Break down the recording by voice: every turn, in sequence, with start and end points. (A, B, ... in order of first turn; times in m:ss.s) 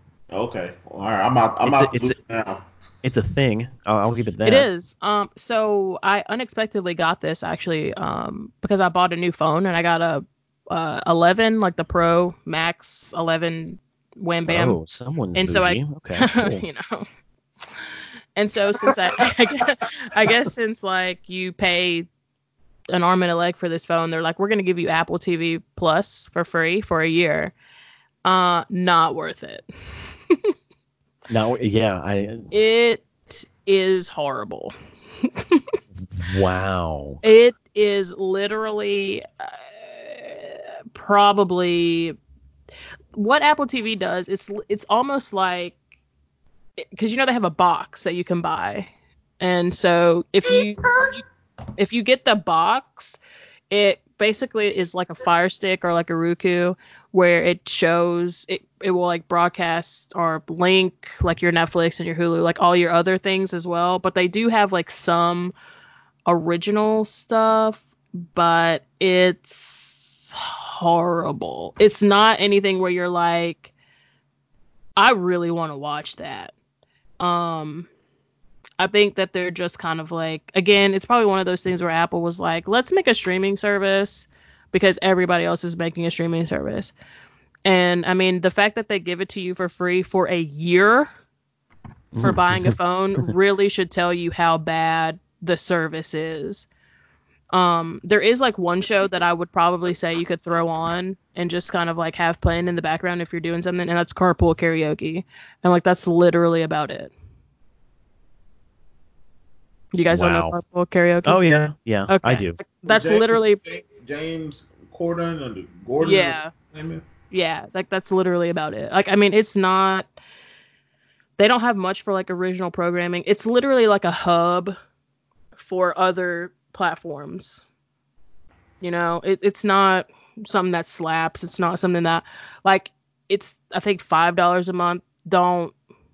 0:00.3-0:02.6 A
0:01.6-0:02.2 B
0:03.0-0:04.7 B
0:04.4-0:14.8 C
0:14.5-0:16.6 B
0:15.4-0:17.0 C
0:17.6-0:22.1 C
0:22.9-0:27.5 C
0:28.2-0:30.5 C
0:31.3-0:32.5 B
0:32.5-0:35.8 C
0:36.1-0:37.2 B
0:37.2-0:42.2 C
0:43.1-0:45.8 C
0:46.8-0:51.2 C
0:51.8-0:53.2 C
0:53.7-1:05.5 C
1:06.2-1:13.7 C
1:15.0-1:16.5 C
1:17.2-1:17.9 C
1:18.8-1:26.9 C
1:27.6-1:31.1 C
1:32.1-1:32.7 B
1:32.2-1:36.7 C
1:37.5-1:47.1 C
1:49.9-1:51.4 C
1:50.1-1:50.6 B
1:51.2-1:52.6 B
1:52.1-1:53.6 C
1:52.8-1:57.0 A
1:56.0-1:56.5 C
1:57.3-2:00.1 C
2:01.4-2:04.8 C
2:05.6-2:07.6 C
2:08.8-2:15.7 C